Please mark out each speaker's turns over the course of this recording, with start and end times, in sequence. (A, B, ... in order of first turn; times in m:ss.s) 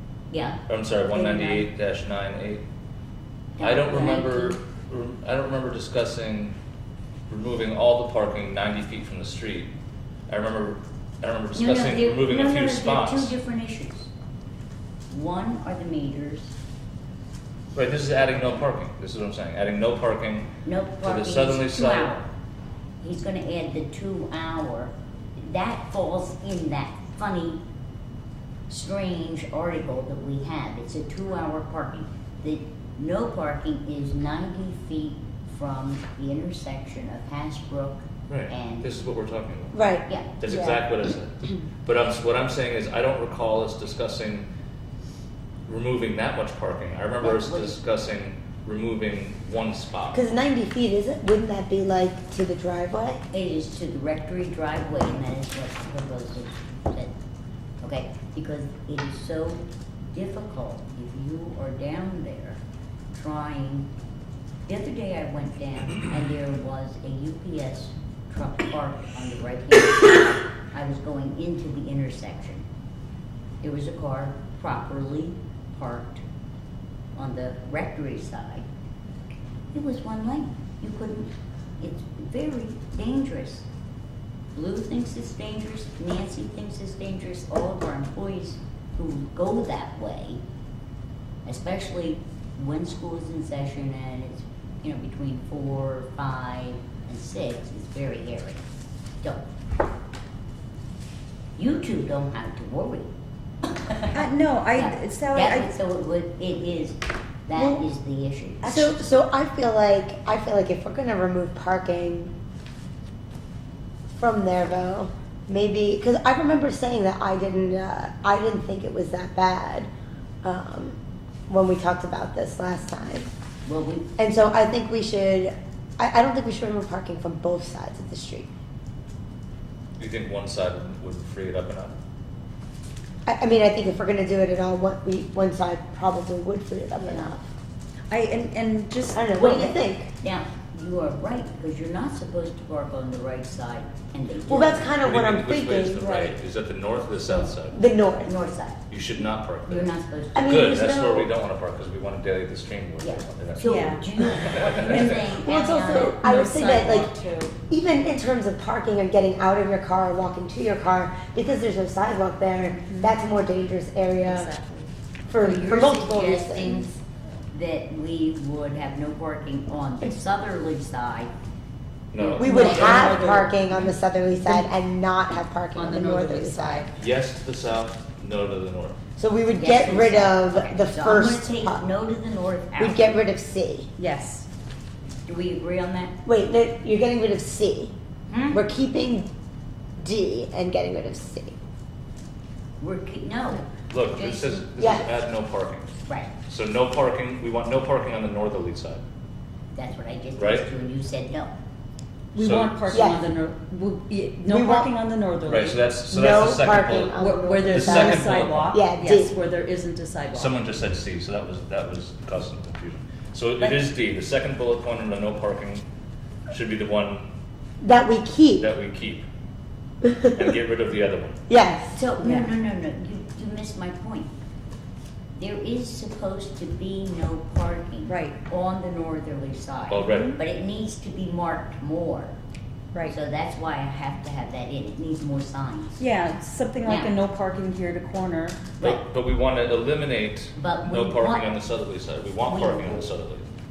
0:00.3-0:00.6 A
0:00.6-0:02.6 B
0:01.1-0:01.6 C
0:03.6-0:04.6 A
0:03.6-0:06.6 B
0:07.3-0:09.7 B
0:10.3-0:13.3 B
0:11.5-0:14.1 A
0:15.1-0:16.5 A
0:17.7-0:20.5 B
0:20.6-0:22.3 A
0:21.0-0:22.1 B
0:23.0-0:27.6 A
0:28.7-0:38.9 A
0:38.3-0:39.8 B
0:39.7-0:40.7 D
0:40.1-0:40.4 A
0:40.4-0:44.5 B
0:45.6-0:50.2 B
0:47.2-0:47.8 A
0:50.1-0:53.2 D
0:53.3-0:57.1 A
0:57.8-1:02.6 A
1:03.1-1:03.9 A
1:04.6-1:12.6 A
1:13.6-1:16.2 A
1:17.2-1:18.6 A
1:19.7-1:23.7 A
1:24.5-1:30.4 A
1:31.4-1:38.6 A
1:41.6-1:43.1 A
1:43.7-1:44.2 A
1:44.1-1:45.7 C
1:44.7-1:48.9 A
1:47.5-1:47.8 D
1:48.6-1:52.3 D
1:54.1-1:59.9 D
2:00.4-2:01.0 D
2:01.5-2:03.3 D
2:03.6-2:04.1 A
2:04.2-2:08.5 D
2:10.0-2:12.0 B
2:13.2-2:17.5 D
2:17.0-2:17.3 A
2:18.1-2:19.3 C
2:19.1-2:20.1 D
2:19.3-2:25.0 A
2:24.5-2:26.1 D
2:25.0-2:27.8 B
2:26.0-2:26.3 C
2:27.3-2:27.5 A
2:27.7-2:28.3 D
2:28.0-2:31.0 A
2:28.9-2:35.4 B
2:30.3-2:31.3 D
2:33.0-2:36.2 A
2:33.6-2:34.0 C
2:34.8-2:35.4 C
2:35.4-2:37.1 D
2:36.0-2:37.5 C
2:37.7-2:44.5 D
2:42.8-2:43.1 C
2:44.2-2:44.9 C
2:45.3-2:46.9 D
2:45.4-2:46.9 A
2:47.5-2:51.3 A
2:52.1-2:53.2 B
2:52.2-2:53.2 A
2:52.4-2:54.7 C
2:52.4-2:56.9 D
2:55.7-2:56.9 C
2:56.9-2:59.0 B
2:59.2-3:01.8 D
2:59.5-3:03.1 A
3:02.8-3:03.9 D
3:04.0-3:04.5 C
3:05.3-3:06.1 A
3:06.2-3:07.9 D
3:08.3-3:08.6 A
3:08.5-3:09.3 D
3:10.0-3:11.6 D
3:12.8-3:14.6 A
3:13.9-3:15.9 B
3:14.8-3:15.0 D
3:16.1-3:16.3 A
3:16.5-3:19.0 B
3:19.7-3:21.5 A
3:20.4-3:20.6 B
3:22.3-3:25.8 C
3:22.4-3:22.8 B
3:22.9-3:23.2 D
3:24.5-3:24.9 D
3:25.4-3:28.8 B
3:26.1-3:29.3 D
3:27.2-3:30.5 C
3:30.3-3:35.8 B
3:36.5-3:37.3 B
3:37.8-3:38.7 D
3:38.6-3:39.2 B
3:40.0-3:40.4 D
3:40.3-3:41.4 B
3:41.5-3:42.0 D
3:41.9-3:44.3 A
3:42.2-3:42.5 C
3:45.4-3:52.4 A
3:48.1-3:48.3 C
3:49.9-3:50.4 B
3:50.0-3:50.3 C
3:53.0-3:56.0 A
3:56.0-3:58.6 C
3:56.8-3:57.1 A
3:58.8-4:03.5 B
4:00.5-4:01.5 A
4:02.4-4:03.1 A